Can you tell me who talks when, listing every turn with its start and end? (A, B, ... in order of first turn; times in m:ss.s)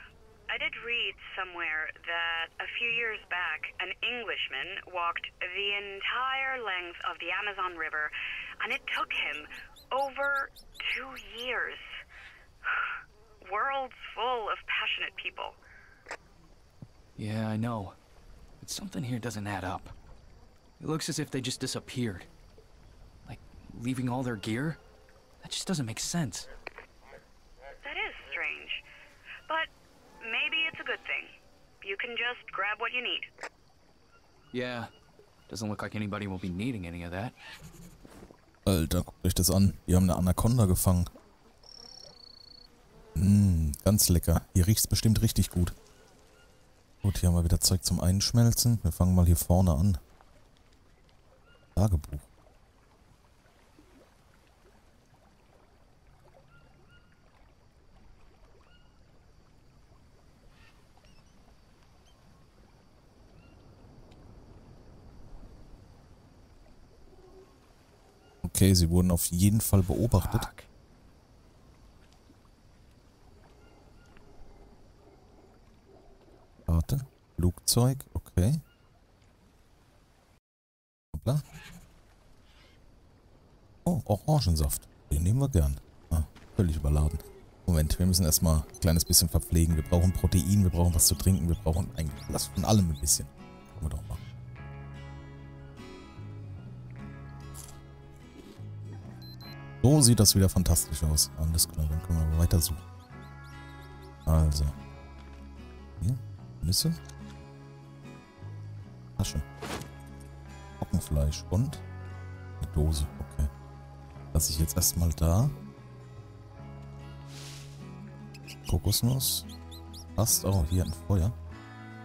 0:00.5-0:12.0 A
0:12.7-0:15.6 A
0:17.2-0:18.0 B
0:18.6-0:19.9 B
0:20.8-0:22.3 B
0:23.2-0:24.8 B
0:25.4-0:26.5 B
0:27.8-0:28.8 A
0:30.2-0:33.3 A
0:34.5-0:34.9 B
0:35.5-0:37.4 B
0:38.7-0:41.1 C
0:43.2-0:45.8 C
0:47.0-0:50.0 C
0:51.8-0:52.3 C
1:08.4-1:10.5 C
1:10.2-1:10.7 B
1:16.7-1:18.6 C
1:21.1-1:21.4 C
1:23.8-1:34.2 C
1:39.8-1:42.8 C
1:44.2-1:44.8 C
1:46.0-1:47.0 C
1:49.2-1:49.4 C
1:50.8-1:51.8 C
1:52.6-1:53.5 C
1:54.3-1:55.6 C
1:58.7-1:59.5 C
2:00.2-2:01.4 C